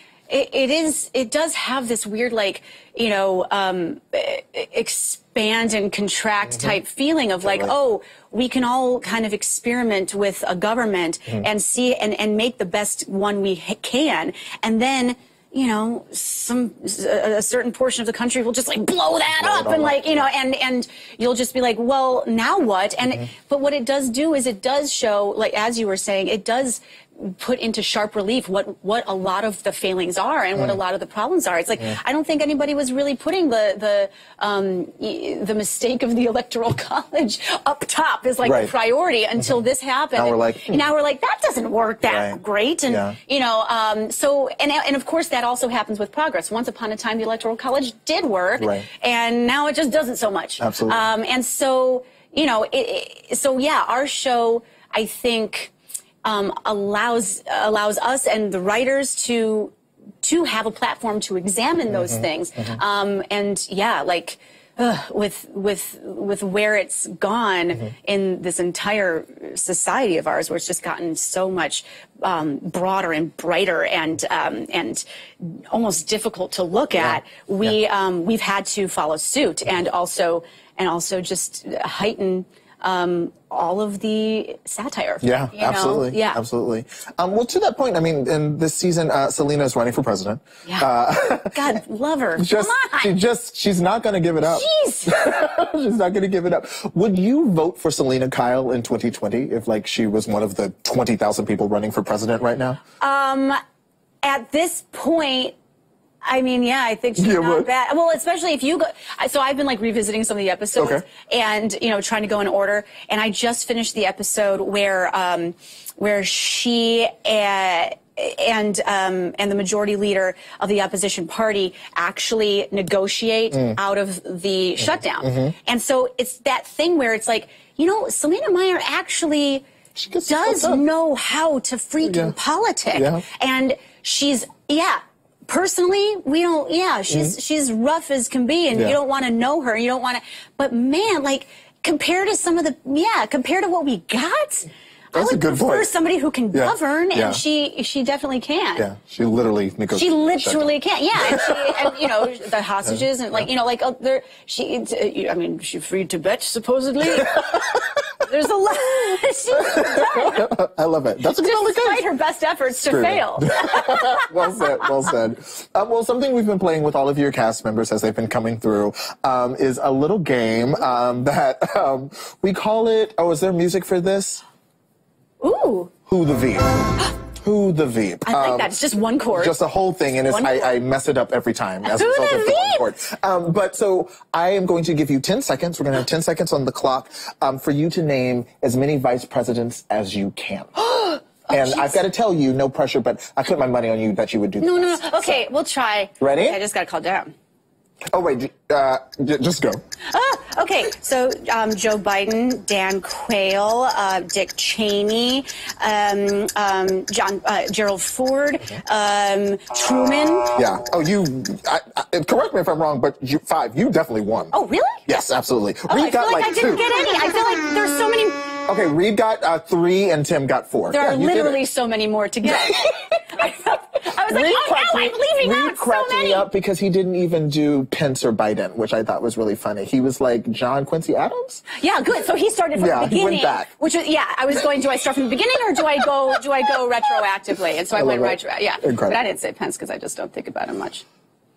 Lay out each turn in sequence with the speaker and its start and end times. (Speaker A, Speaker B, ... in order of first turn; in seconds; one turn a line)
Speaker A: 0.3-55.7
Speaker B: 7.4-7.7
Speaker B: 19.3-20.3
Speaker B: 38.4-38.7
Speaker B: 40.2-40.8
Speaker B: 42.0-43.2
Speaker B: 48.6-48.9
Speaker B: 50.6-51.1
Speaker A: 56.2-86.4
Speaker B: 61.9-62.2
Speaker B: 77.0-77.7
Speaker B: 85.2-91.8
Speaker A: 91.5-93.1
Speaker B: 92.4-102.8
Speaker A: 94.5-95.2
Speaker A: 103.0-103.6
Speaker A: 104.2-105.5
Speaker A: 106.3-129.7
Speaker B: 107.2-107.7
Speaker B: 110.8-111.0
Speaker B: 123.5-123.8
Speaker B: 125.2-125.5
Speaker B: 129.9-130.8
Speaker A: 130.3-148.9
Speaker B: 132.1-132.3
Speaker B: 132.9-133.2
Speaker B: 138.7-139.0
Speaker B: 145.1-145.9
Speaker B: 146.5-147.4
Speaker B: 148.8-151.8
Speaker A: 149.9-160.5
Speaker B: 159.7-162.1
Speaker A: 161.4-165.1
Speaker B: 162.8-174.4
Speaker A: 175.4-175.9
Speaker B: 176.1-178.8
Speaker A: 178.3-179.6
Speaker B: 179.3-195.4
Speaker A: 180.3-180.8
Speaker A: 181.9-182.9
Speaker A: 190.9-192.0
Speaker A: 194.6-197.3
Speaker B: 196.2-196.6
Speaker B: 198.1-199.8
Speaker A: 200.1-210.6
Speaker B: 210.6-214.5
Speaker A: 214.5-215.1
Speaker B: 215.1-216.8
Speaker A: 215.9-218.5
Speaker B: 218.7-221.6
Speaker A: 220.9-226.5
Speaker B: 224.3-231.6
Speaker A: 231.8-241.1
Speaker B: 232.8-233.7
Speaker B: 237.9-239.2